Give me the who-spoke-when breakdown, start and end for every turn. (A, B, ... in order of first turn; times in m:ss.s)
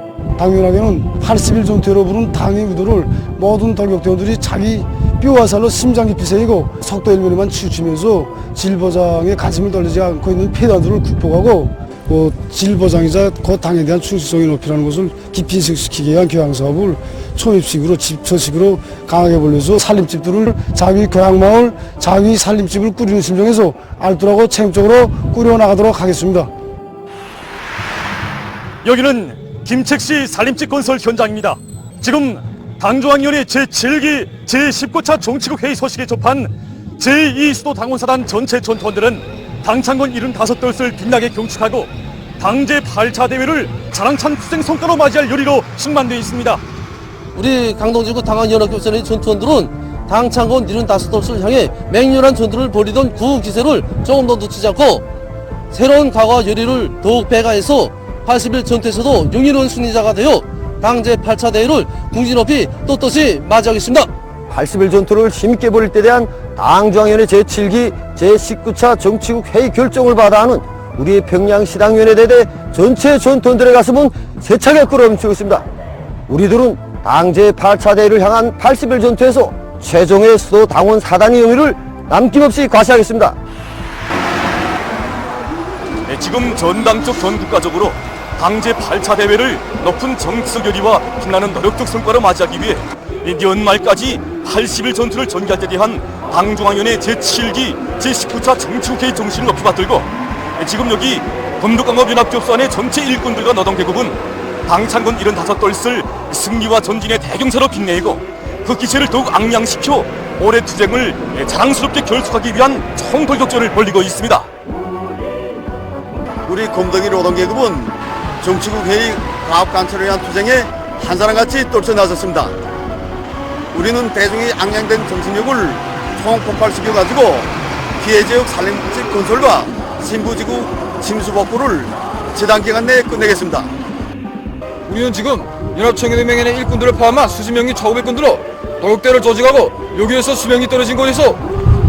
0:00.4-0:26.5 A
0:28.8-0:46.6 B
0:47.3-0:55.0 C
0:55.7-1:04.1 C
1:04.5-1:15.6 D
1:16.3-1:23.4 D
1:26.0-1:54.5 B
1:56.4-2:02.5 E
2:03.7-2:13.7 E
2:14.8-2:21.4 F